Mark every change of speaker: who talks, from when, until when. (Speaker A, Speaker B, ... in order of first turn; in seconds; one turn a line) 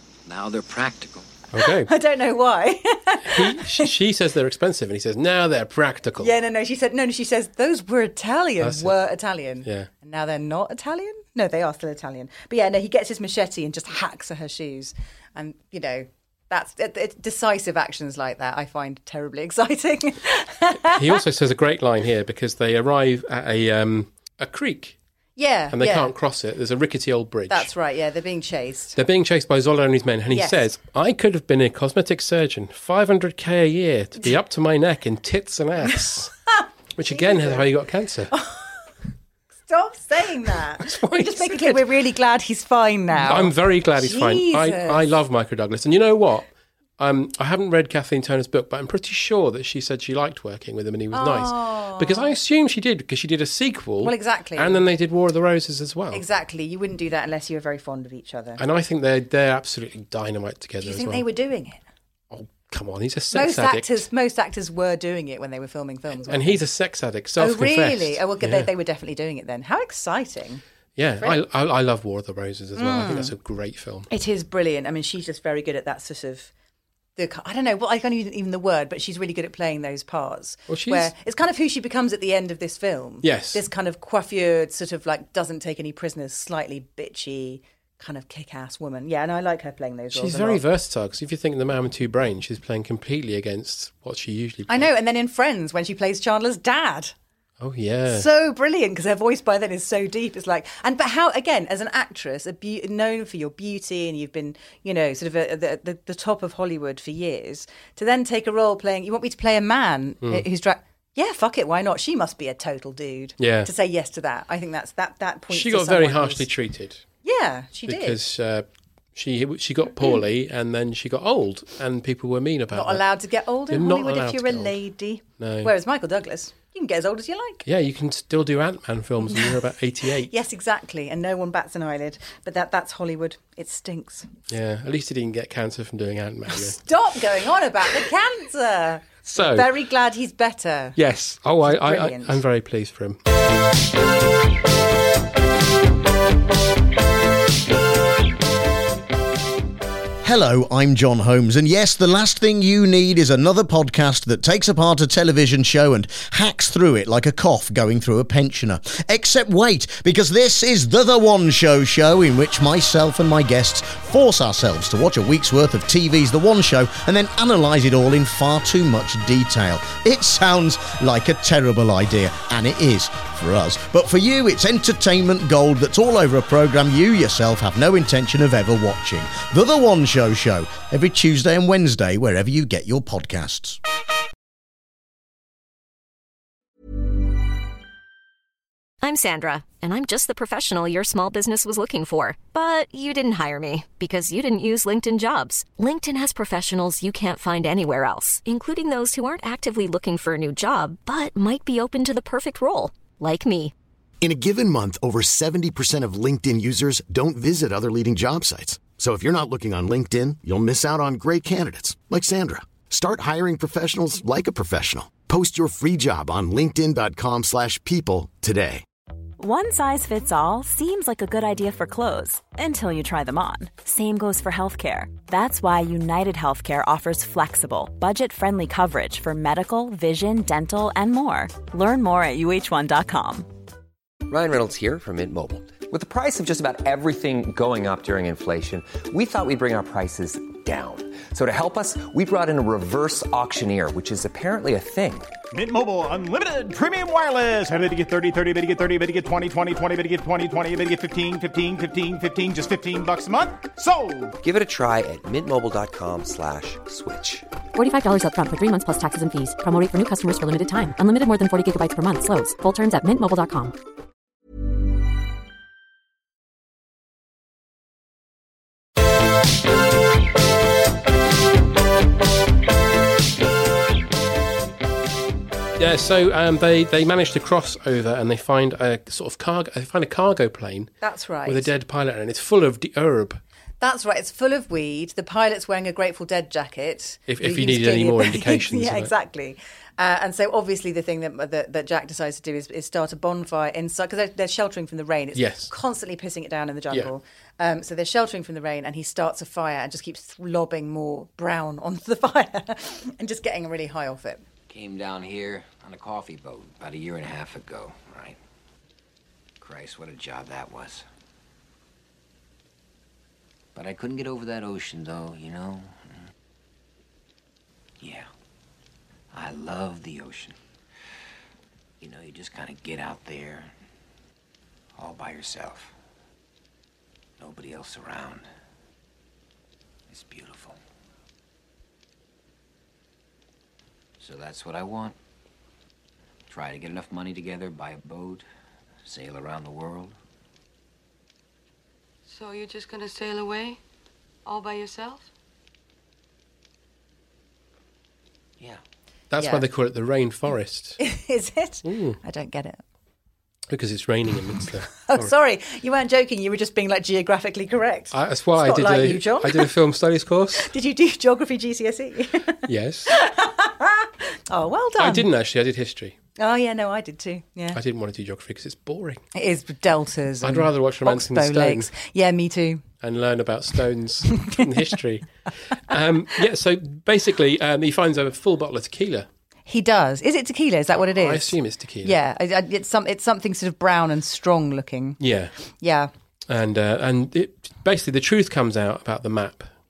Speaker A: 0.3-1.3
Speaker B: 1.5-1.9
Speaker C: 1.6-3.9
Speaker B: 3.3-6.3
Speaker C: 6.2-21.2
Speaker B: 8.6-8.9
Speaker B: 20.8-25.0
Speaker C: 25.4-26.1
Speaker B: 25.7-27.7
Speaker C: 27.5-29.0
Speaker B: 28.9-36.3
Speaker C: 30.3-30.6
Speaker C: 36.5-37.7
Speaker B: 37.0-38.3
Speaker C: 38.3-38.8
Speaker C: 39.7-45.1
Speaker B: 40.8-41.9
Speaker B: 43.1-56.2
Speaker C: 51.1-52.4
Speaker C: 54.0-54.8
Speaker C: 56.1-58.6
Speaker B: 58.6-61.2
Speaker C: 60.8-61.8
Speaker B: 62.3-64.0
Speaker C: 63.3-66.6
Speaker B: 66.2-68.7
Speaker C: 67.4-70.6
Speaker B: 71.0-74.1
Speaker C: 72.8-73.3
Speaker C: 74.1-76.5
Speaker C: 77.2-90.6
Speaker B: 80.7-81.1
Speaker B: 83.2-83.6
Speaker B: 90.1-94.9
Speaker C: 94.7-97.1
Speaker B: 97.6-98.3
Speaker C: 98.1-116.5
Speaker B: 113.4-113.7
Speaker B: 115.5-117.0
Speaker C: 117.2-118.2
Speaker B: 117.9-123.1
Speaker C: 122.7-127.6
Speaker B: 123.7-124.8
Speaker B: 125.4-125.7
Speaker B: 127.7-130.3
Speaker C: 130.2-134.3
Speaker B: 134.5-136.8
Speaker C: 136.5-141.0
Speaker B: 139.3-139.7
Speaker B: 141.0-143.2
Speaker C: 141.6-142.4
Speaker D: 150.2-183.8
Speaker E: 189.0-203.7
Speaker F: 204.2-218.8
Speaker G: 219.4-233.5
Speaker H: 234.3-245.3
Speaker I: 245.5-254.3
Speaker H: 254.4-257.5
Speaker J: 257.8-263.8
Speaker B: 275.8-280.9
Speaker C: 281.0-281.7
Speaker B: 281.5-283.4
Speaker C: 283.8-304.4
Speaker B: 287.3-289.1
Speaker B: 295.4-295.7
Speaker A: 304.7-308.4
Speaker A: 309.6-311.1
Speaker A: 313.8-316.2
Speaker A: 318.0-318.3
Speaker A: 319.3-320.6
Speaker A: 322.0-323.7
Speaker A: 325.0-325.9
Speaker A: 327.4-328.4
Speaker A: 330.1-330.8
Speaker A: 334.2-335.2
Speaker A: 336.5-338.5
Speaker A: 339.0-340.2
Speaker K: 342.3-343.8
Speaker K: 344.5-345.3
Speaker B: 349.3-351.0
Speaker C: 349.4-349.6
Speaker C: 351.0-352.8
Speaker B: 351.9-352.2
Speaker B: 353.7-355.3
Speaker C: 355.0-359.7
Speaker B: 358.1-360.7
Speaker C: 360.6-365.3
Speaker B: 362.6-363.1
Speaker B: 365.0-366.2
Speaker C: 366.4-367.8
Speaker B: 367.8-369.2
Speaker C: 369.3-372.8
Speaker B: 370.4-371.9
Speaker B: 373.0-375.3
Speaker B: 375.9-379.3
Speaker C: 379.7-385.2
Speaker B: 381.0-382.1
Speaker B: 385.2-385.5
Speaker C: 385.8-386.1
Speaker B: 386.5-389.7